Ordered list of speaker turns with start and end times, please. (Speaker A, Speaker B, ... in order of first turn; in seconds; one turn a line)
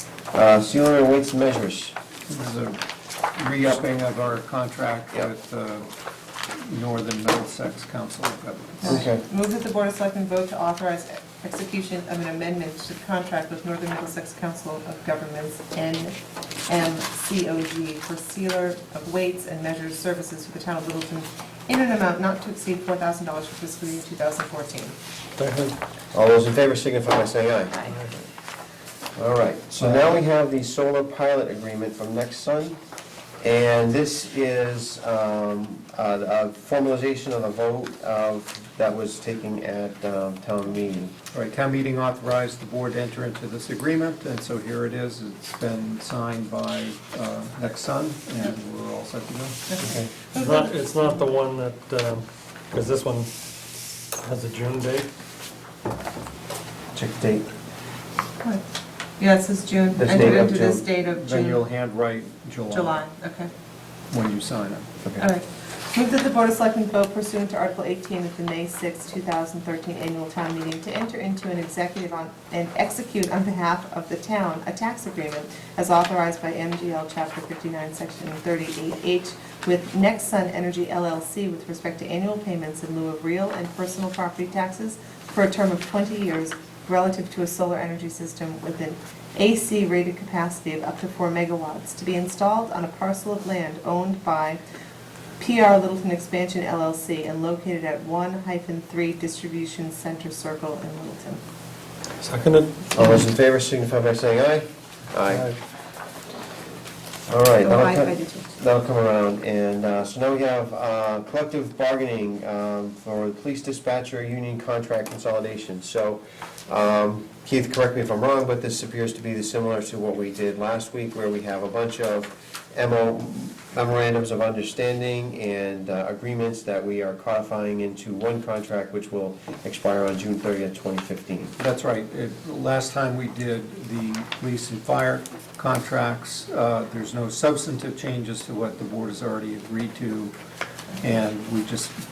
Speaker A: 0.3-1.9
Speaker B: 2.3-2.8
Speaker B: 3.4-5.9
Speaker B: 6.5-9.1
Speaker C: 8.8-16.1
Speaker A: 8.8-9.2
Speaker C: 16.6-24.9
Speaker D: 25.4-25.8
Speaker A: 26.1-27.8
Speaker A: 29.1-32.8
Speaker B: 29.8-30.1
Speaker A: 33.4-41.1
Speaker B: 41.3-49.6
Speaker C: 49.7-51.2
Speaker A: 49.8-50.1
Speaker D: 50.3-53.3
Speaker D: 54.2-55.1
Speaker A: 56.9-57.5
Speaker C: 59.2-61.6
Speaker A: 60.0-60.8
Speaker B: 60.1-60.4
Speaker B: 61.1-63.0
Speaker C: 62.7-63.5
Speaker B: 64.1-64.9
Speaker C: 65.2-94.6
Speaker C: 95.4-101.4
Speaker D: 102.2-103.0
Speaker A: 102.9-105.5
Speaker D: 105.3-105.5
Speaker A: 107.3-131.5
Speaker C: 107.6-108.5
Speaker B: 131.6-140.3
Speaker B: 141.0-142.0